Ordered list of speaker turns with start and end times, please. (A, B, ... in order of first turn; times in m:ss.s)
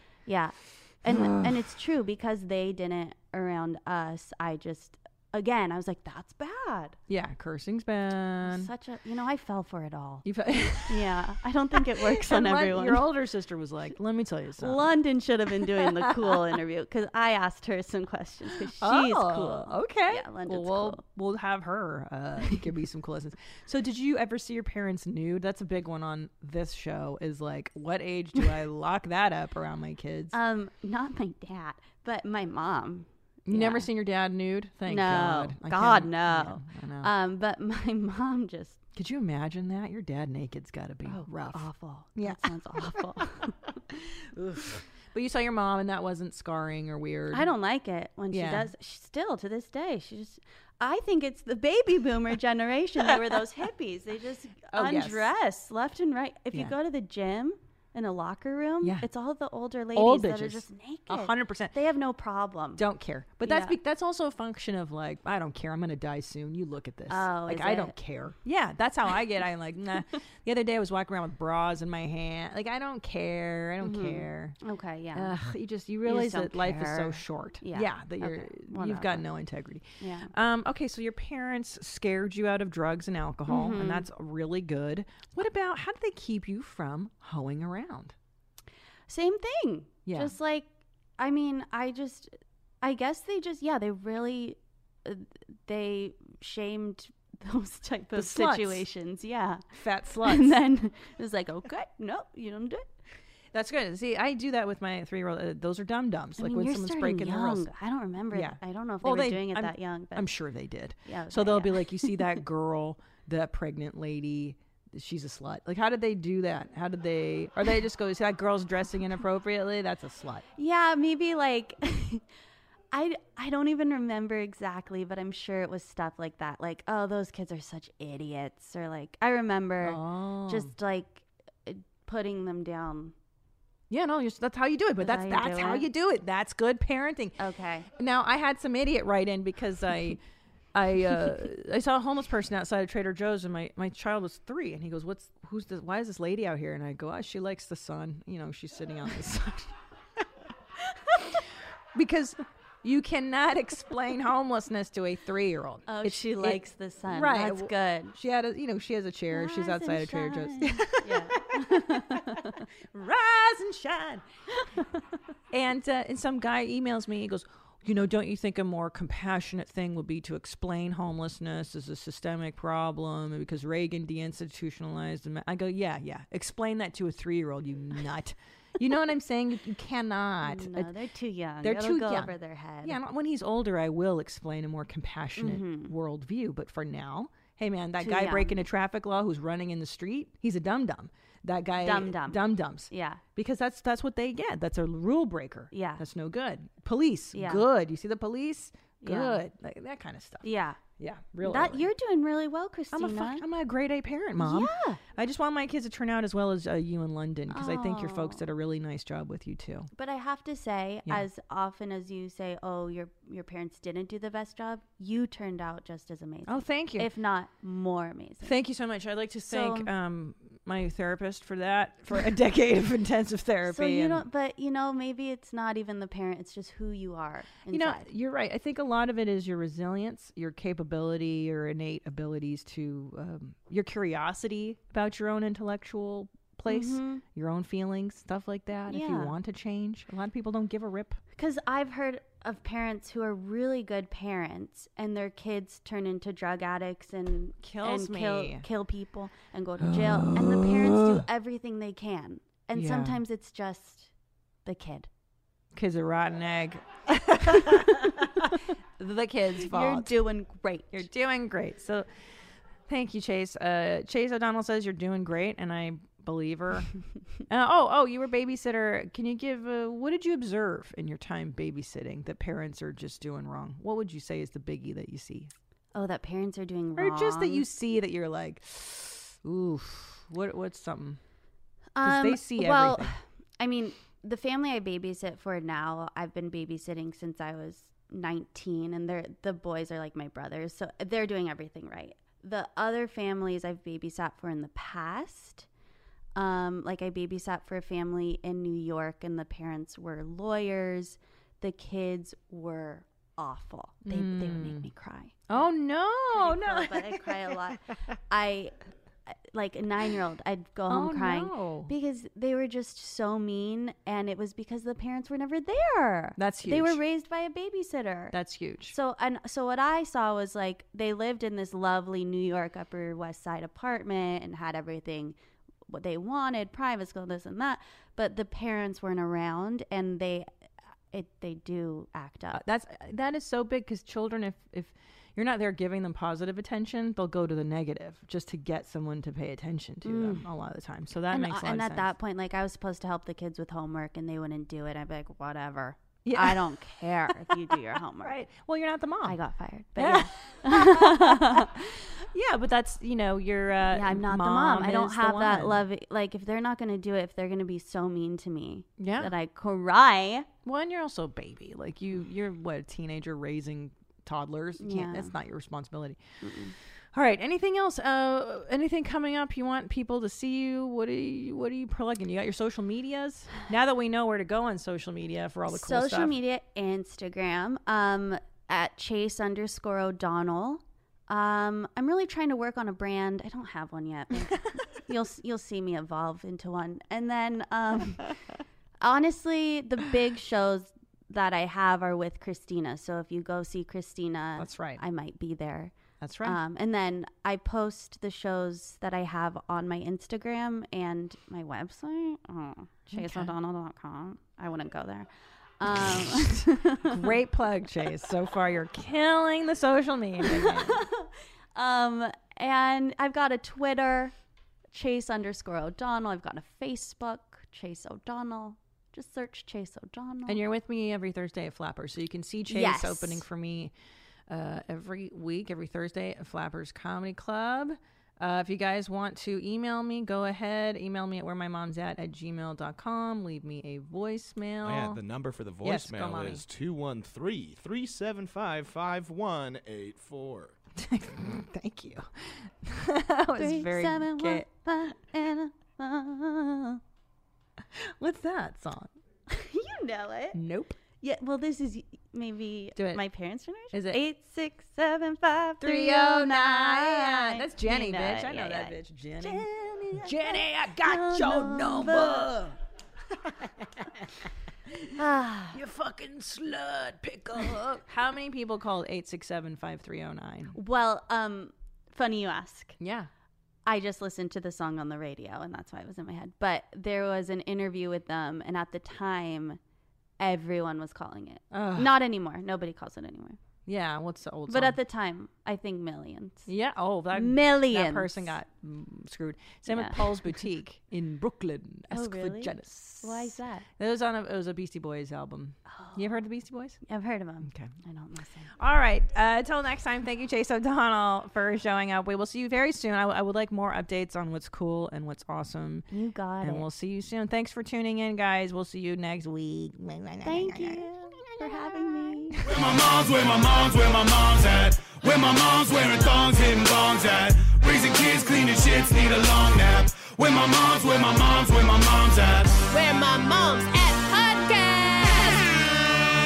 0:00.2-0:07.0 A
0:01.0-0:01.6 B
0:07.1-0:08.7 B
0:08.4-0:10.2 A
0:10.2-0:11.1 B
0:10.8-0:13.1 A
0:11.7-0:14.9 B
0:14.6-0:21.0 A
0:15.6-0:16.4 B
0:18.7-0:30.4 B
0:30.3-0:33.9 A
0:33.4-0:37.1 B
0:34.9-0:38.8 A
0:38.9-0:43.3 B
0:41.1-0:43.8 A
0:43.9-0:47.5 B
0:47.3-1:02.8 A
0:48.3-0:48.7 B
0:54.7-0:55.3 B
0:58.8-0:59.1 B
0:59.9-1:01.7 B
1:02.8-1:14.6 B
1:03.4-1:03.8 A
1:07.1-1:08.0 A
1:13.8-1:15.3 A
1:15.1-1:28.1 B
1:16.0-1:19.2 A
1:20.0-1:20.3 A
1:23.5-1:24.1 A
1:29.1-1:32.3 A
1:30.0-1:30.3 B
1:32.8-1:39.6 A
1:38.1-1:38.9 B
1:39.7-1:40.6 B
1:40.2-1:42.9 A
1:43.5-1:47.7 B
1:46.4-1:50.3 A
1:48.3-2:00.4 B
1:51.0-1:52.3 A
2:00.6-2:02.2 A
2:02.9-2:13.1 A
2:09.8-2:10.7 B
2:13.9-2:17.4 B
2:15.0-2:15.9 A
2:17.4-2:17.9 A
2:18.0-2:20.2 B
2:20.7-2:29.7 B
2:31.1-2:31.4 B
2:31.9-2:44.2 B
2:35.9-2:38.1 A
2:39.3-2:42.7 A
2:45.5-3:00.9 B
3:00.4-3:03.0 A
3:01.6-3:20.5 B
3:05.4-3:05.9 A
3:08.0-3:08.6 A
3:11.8-3:13.2 A
3:15.7-3:16.0 A
3:17.3-3:17.6 A
3:19.0-3:19.4 A
3:20.4-3:20.8 A
3:21.0-3:21.9 B
3:21.4-3:23.4 A
3:22.9-3:29.9 B
3:24.4-3:25.0 A
3:27.5-3:28.5 A
3:29.9-3:38.5 A
3:36.5-3:37.1 B
3:38.4-3:44.2 B
3:39.5-3:39.9 A
3:43.6-3:48.1 A
3:47.7-4:01.2 B
3:56.7-3:57.2 A
3:58.9-3:59.3 A
4:01.4-4:14.1 A
4:07.6-4:08.7 B
4:09.8-4:11.2 B
4:12.7-4:13.2 B
4:14.6-4:15.1 A
4:15.7-4:20.1 B
4:19.6-4:21.0 A
4:20.9-4:22.1 B
4:22.9-4:26.9 B
4:27.5-4:35.5 B
4:35.9-4:37.6 A
4:37.0-4:41.2 B
4:41.9-4:55.6 A
4:42.0-4:43.1 B
4:56.3-5:05.4 A
5:04.0-5:04.9 B
5:05.5-5:07.7 B
5:06.3-5:08.7 A
5:09.3-5:18.4 A
5:10.9-5:11.9 B
5:16.4-5:17.0 B
5:18.3-5:18.9 B
5:18.9-5:25.4 A
5:25.9-5:30.5 A
5:31.1-5:32.6 A
5:32.5-5:42.1 B
5:40.0-5:40.4 A
5:41.3-5:48.4 A
5:46.2-5:49.4 B
5:49.2-5:51.7 A
5:50.0-5:55.9 B
5:53.9-6:00.5 A
5:59.0-5:59.3 B
6:00.6-6:06.2 B
6:04.8-6:05.3 A
6:06.4-6:06.8 A
6:07.1-6:16.3 B
6:15.7-6:28.2 A
6:29.0-6:45.3 A
6:34.6-6:35.0 B
6:36.2-6:36.6 B
6:43.1-6:43.5 B
6:45.8-6:47.3 A
6:46.2-6:51.0 B
6:50.4-6:54.3 A
6:54.9-7:00.6 A
7:00.4-7:03.9 B
7:02.7-7:03.4 A
7:04.5-7:15.2 B
7:14.8-7:20.8 C
7:15.8-7:16.6 B
7:21.0-7:24.7 B
7:23.5-7:27.0 A
7:27.9-7:29.1 B
7:29.5-7:30.6 A
7:30.5-7:31.0 B
7:31.2-7:42.5 A
7:33.0-7:33.2 B
7:33.9-7:34.2 B
7:35.8-7:42.8 B
7:43.3-7:45.2 B
7:45.1-7:45.8 A
7:45.7-7:50.8 B
7:50.7-7:53.0 A
7:53.0-7:53.3 B
7:53.9-7:59.8 A
8:00.4-8:03.6 A
8:01.7-8:02.1 B
8:03.9-8:05.0 B
8:04.7-8:06.7 A
8:06.7-8:17.0 B
8:07.3-8:08.6 A
8:09.9-8:10.4 A
8:12.1-8:13.9 A
8:15.9-8:16.4 A
8:17.0-8:18.7 A
8:17.6-8:17.9 B
8:18.8-8:26.1 B
8:26.1-8:26.9 A
8:26.6-8:31.7 B
8:30.4-8:32.6 A
8:32.6-8:42.9 D
8:42.9-8:45.8 E